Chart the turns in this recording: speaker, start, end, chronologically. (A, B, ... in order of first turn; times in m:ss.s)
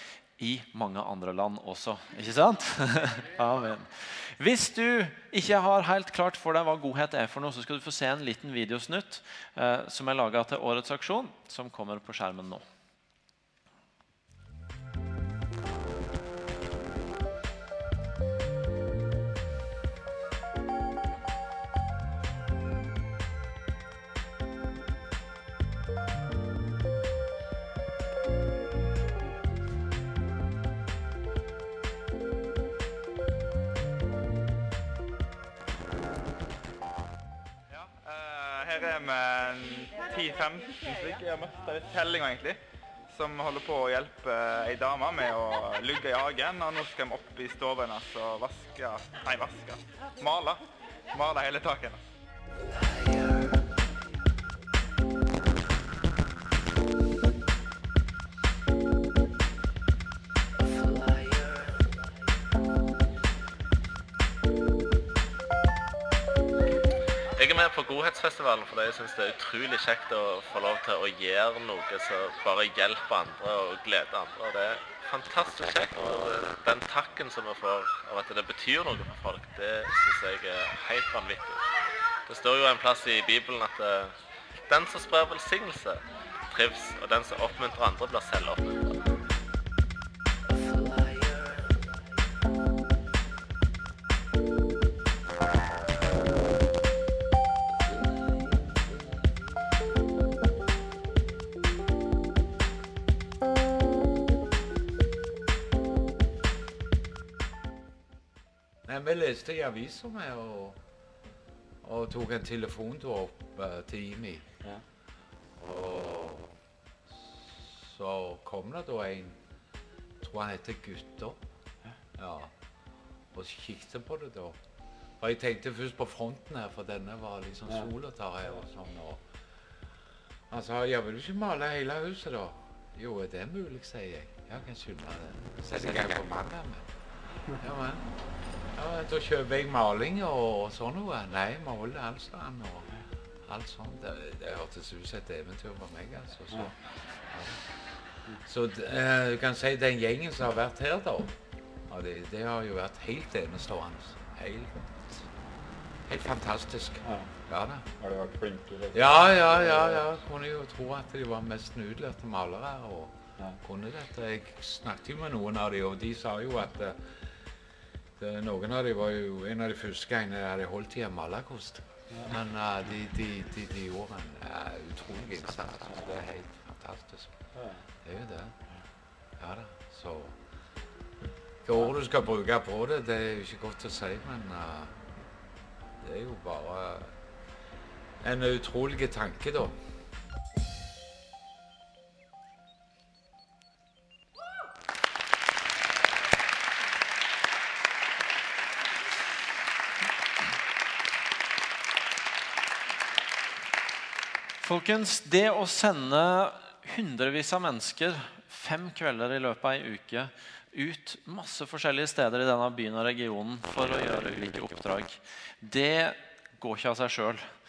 0:00.4-0:12.6 A
0:37.7-0:50.6 B
0:51.1-0:52.0 B
1:07.3-1:21.6 C
1:22.2-1:24.2 C
1:24.7-1:28.8 C
1:48.8-1:50.8 D
1:51.8-1:54.5 D
1:55.6-1:56.5 D
1:57.2-1:59.4 D
2:00.2-2:01.4 D
2:02.1-2:02.5 D
2:03.3-2:04.6 D
2:05.2-2:09.2 D
2:10.5-2:16.8 D
2:17.5-2:18.1 D
2:18.7-2:27.6 D
2:28.4-2:31.3 D
2:31.9-2:34.8 D
2:36.0-2:37.9 D
2:37.0-2:37.3 E
2:38.0-2:40.0 E
2:38.9-2:47.0 D
2:48.2-2:57.4 D
2:57.5-2:57.8 E
2:58.0-2:58.6 D
2:59.4-3:00.4 D
3:01.6-3:05.0 D
3:06.0-3:07.2 D
3:08.2-3:09.7 D
3:24.6-3:37.4 A